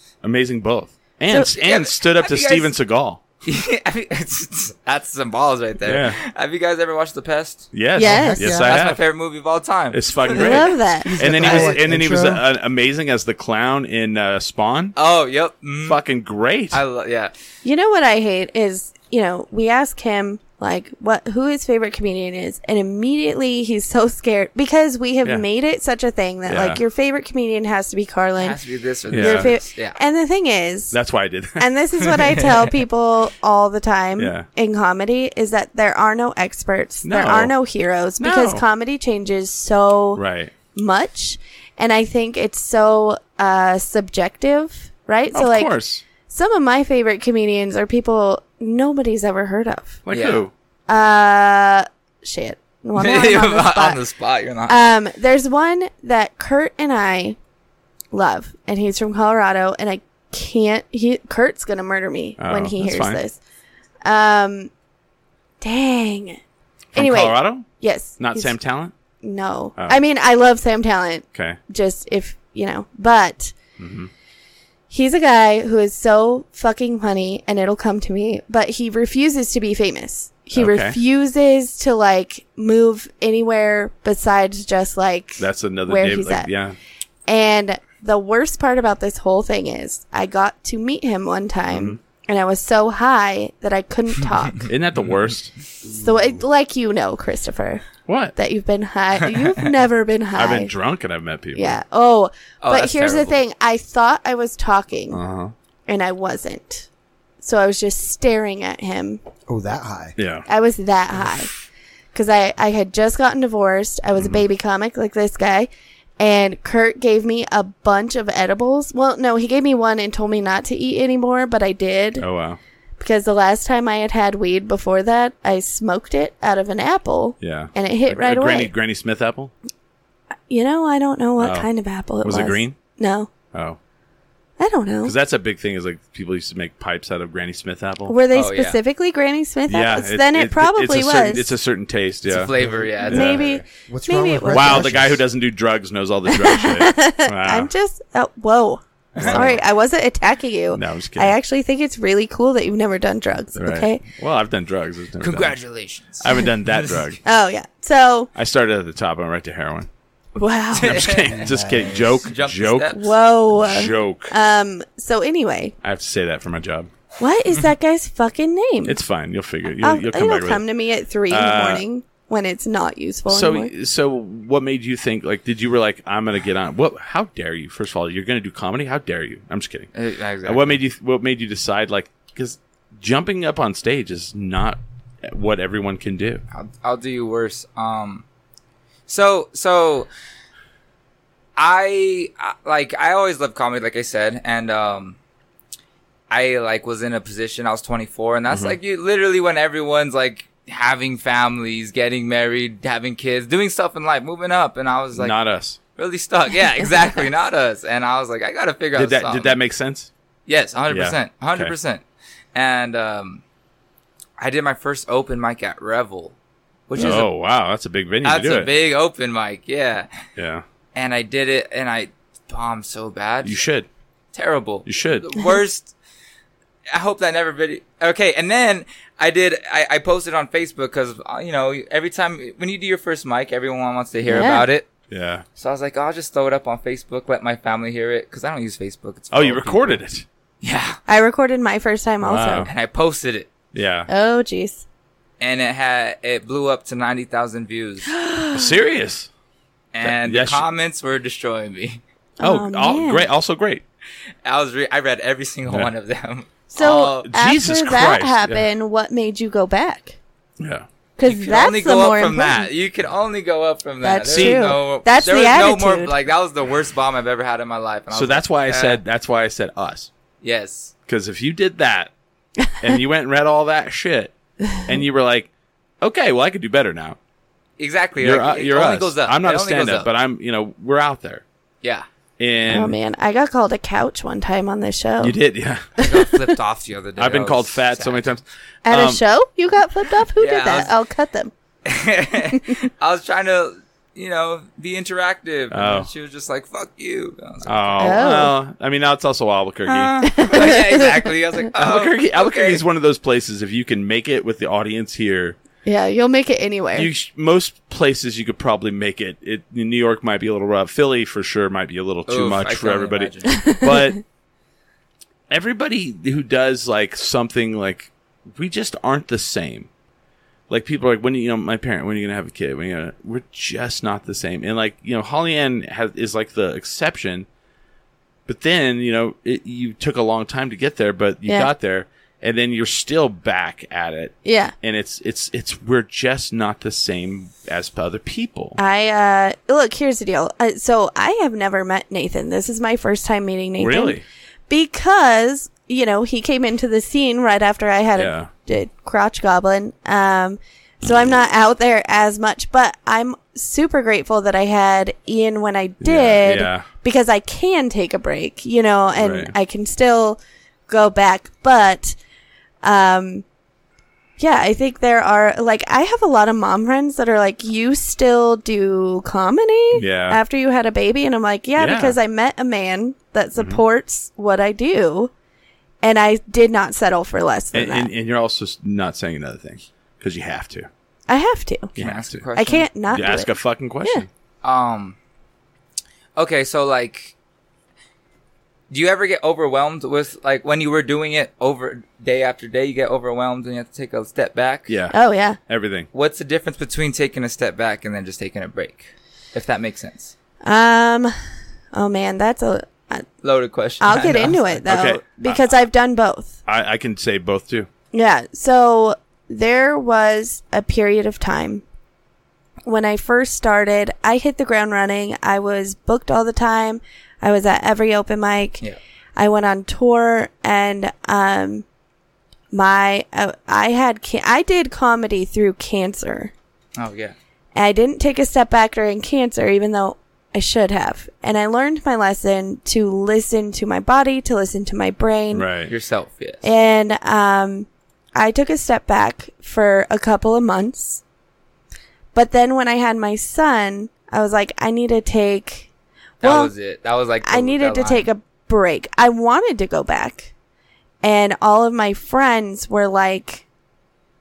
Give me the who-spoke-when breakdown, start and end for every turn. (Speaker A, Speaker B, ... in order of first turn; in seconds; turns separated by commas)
Speaker A: 0.2-3.2, Speaker B: 1.6-2.7, Speaker B: 3.4-7.7, Speaker A: 5.8-6.2, Speaker A: 7.7-9.0, Speaker C: 8.0-8.5, Speaker D: 8.0-8.8, Speaker B: 8.5-10.5, Speaker A: 9.9-14.9, Speaker C: 10.3-11.7, Speaker D: 11.0-12.4, Speaker B: 14.9-16.0, Speaker A: 15.8-16.8, Speaker B: 16.7-17.3, Speaker C: 17.6-28.6, Speaker A: 26.4-26.8, Speaker B: 28.4-30.0, Speaker A: 29.1-29.5, Speaker C: 29.1-31.0, Speaker A: 30.9-31.7, Speaker C: 31.6-40.2, Speaker B: 32.0-32.7, Speaker A: 34.2-34.5, Speaker A: 37.0-37.5, Speaker A: 38.2-38.6, Speaker A: 40.1-40.5, Speaker C: 40.7-45.7, Speaker A: 45.3-46.0, Speaker C: 46.2-50.0, Speaker A: 50.0-50.5, Speaker B: 50.1-50.4, Speaker C: 50.9-54.0, Speaker B: 53.0-54.8, Speaker C: 54.7-57.4, Speaker C: 58.1-63.4, Speaker A: 62.4-63.2, Speaker C: 64.0-64.7, Speaker C: 65.6-66.4, Speaker A: 66.9-67.7, Speaker C: 66.9-68.5, Speaker A: 68.2-68.9, Speaker C: 69.2-73.5, Speaker A: 73.8-74.1, Speaker C: 74.9-86.5, Speaker A: 80.5-81.0, Speaker A: 85.4-86.8, Speaker C: 87.3-94.7, Speaker A: 91.7-92.0, Speaker A: 94.6-95.5, Speaker C: 95.8-100.7, Speaker D: 95.9-96.3, Speaker A: 98.0-98.3, Speaker A: 100.3-101.8, Speaker C: 101.5-105.2, Speaker B: 102.6-103.4, Speaker A: 105.1-105.5, Speaker C: 105.9-106.9, Speaker C: 107.4-109.2, Speaker D: 109.5-110.2, Speaker A: 110.2-110.5, Speaker C: 110.5-111.5, Speaker C: 112.1-122.2, Speaker A: 114.1-114.4, Speaker A: 122.2-122.6, Speaker C: 123.0-128.7, Speaker A: 127.4-129.5, Speaker C: 130.5-133.3, Speaker A: 131.4-131.7, Speaker A: 132.2-132.8, Speaker A: 133.5-133.8, Speaker C: 134.6-135.1, Speaker A: 135.0-138.2, Speaker C: 138.1-141.5, Speaker B: 138.3-138.8, Speaker A: 139.7-142.5, Speaker B: 142.2-143.4, Speaker D: 142.6-145.2, Speaker A: 143.1-143.6, Speaker C: 143.1-145.1, Speaker A: 144.5-147.7, Speaker C: 146.3-154.0, Speaker B: 149.1-149.6, Speaker A: 149.2-149.6, Speaker A: 150.7-151.4, Speaker A: 153.6-155.6, Speaker B: 155.2-157.0, Speaker A: 156.2-157.2, Speaker C: 157.2-158.3, Speaker A: 158.3-159.9, Speaker C: 160.3-161.0, Speaker B: 160.7-163.1, Speaker A: 160.8-164.3, Speaker D: 161.4-162.0, Speaker C: 162.9-165.7, Speaker A: 165.8-166.9, Speaker C: 167.2-169.0, Speaker A: 168.8-170.6, Speaker C: 169.8-173.7, Speaker A: 171.3-171.8, Speaker A: 173.3-179.9, Speaker B: 179.9-180.8, Speaker A: 180.4-186.4, Speaker B: 186.5-188.2, Speaker B: 189.1-190.1, Speaker B: 191.6-195.2, Speaker B: 196.3-205.3, Speaker A: 198.5-198.8, Speaker A: 205.1-205.8, Speaker B: 205.9-209.6, Speaker A: 208.9-210.1, Speaker B: 210.5-213.4, Speaker A: 210.9-211.7, Speaker B: 214.4-216.3, Speaker B: 216.9-217.3, Speaker A: 216.9-218.7, Speaker B: 218.2-220.1, Speaker A: 220.4-220.6, Speaker B: 220.9-223.6, Speaker A: 223.4-223.9, Speaker B: 224.3-225.9, Speaker A: 224.8-225.3, Speaker B: 226.9-234.9, Speaker C: 234.3-234.7, Speaker A: 235.1-235.4, Speaker B: 235.6-240.0, Speaker A: 239.3-240.2, Speaker B: 240.6-241.0, Speaker C: 241.1-242.7, Speaker A: 242.2-242.7, Speaker B: 242.6-243.5, Speaker A: 243.7-244.1, Speaker C: 244.1-244.8, Speaker B: 245.4-248.1, Speaker C: 248.1-248.8, Speaker A: 248.5-249.3, Speaker B: 249.9-252.0, Speaker A: 250.0-250.6, Speaker C: 252.4-253.2, Speaker A: 252.4-253.8, Speaker B: 254.4-257.3, Speaker C: 256.7-260.2, Speaker A: 257.2-258.7, Speaker A: 260.6-260.9, Speaker C: 261.2-262.7, Speaker B: 261.2-269.0, Speaker C: 264.0-266.1, Speaker A: 264.3-264.8, Speaker A: 268.1-270.1, Speaker B: 270.4-270.9, Speaker A: 271.1-272.1, Speaker A: 272.8-275.5, Speaker A: 276.0-277.2, Speaker B: 277.8-280.1, Speaker A: 278.2-281.4, Speaker A: 282.4-283.0, Speaker C: 282.7-285.4, Speaker A: 285.2-285.8, Speaker B: 286.0-288.2, Speaker C: 286.0-286.3, Speaker A: 287.2-289.2, Speaker C: 288.9-291.5, Speaker B: 290.4-290.9, Speaker B: 291.9-298.2, Speaker A: 295.7-296.1, Speaker A: 297.6-300.1, Speaker C: 298.0-298.5, Speaker B: 299.9-302.8, Speaker C: 300.2-301.2, Speaker A: 301.8-305.6, Speaker C: 305.8-307.1, Speaker A: 306.9-314.2, Speaker B: 312.3-313.6, Speaker C: 313.5-314.1, Speaker A: 315.5-319.9, Speaker A: 320.7-327.4, Speaker A: 328.5-338.8, Speaker C: 334.4-334.7, Speaker C: 338.8-344.2, Speaker A: 343.8-344.2, Speaker C: 344.7-362.2, Speaker A: 348.1-348.5, Speaker A: 356.0-356.9, Speaker A: 359.1-359.5, Speaker C: 362.8-363.4, Speaker C: 364.4-375.3, Speaker A: 369.9-370.4, Speaker A: 371.8-372.1, Speaker A: 373.6-373.8, Speaker C: 376.0-378.1, Speaker A: 377.7-380.9, Speaker C: 381.3-381.9, Speaker A: 381.9-382.4, Speaker B: 382.0-382.9, Speaker C: 382.6-383.5, Speaker A: 383.1-384.3, Speaker B: 384.6-385.2, Speaker B: 386.4-387.3, Speaker B: 388.9-394.9, Speaker A: 394.9-396.1, Speaker C: 395.1-395.6, Speaker B: 396.1-400.3, Speaker C: 400.6-401.3, Speaker C: 401.9-403.2, Speaker B: 403.4-404.8, Speaker C: 404.0-406.6, Speaker A: 404.9-405.8, Speaker A: 406.6-407.9, Speaker C: 408.1-411.8, Speaker C: 412.8-418.8, Speaker C: 419.4-421.8, Speaker C: 422.7-426.5, Speaker B: 427.0-427.3, Speaker C: 427.7-435.6, Speaker A: 435.5-435.9, Speaker B: 435.9-436.6, Speaker C: 436.6-441.2, Speaker C: 442.3-445.9, Speaker C: 446.4-446.7, Speaker B: 446.4-448.3, Speaker C: 447.4-450.5, Speaker C: 451.2-453.6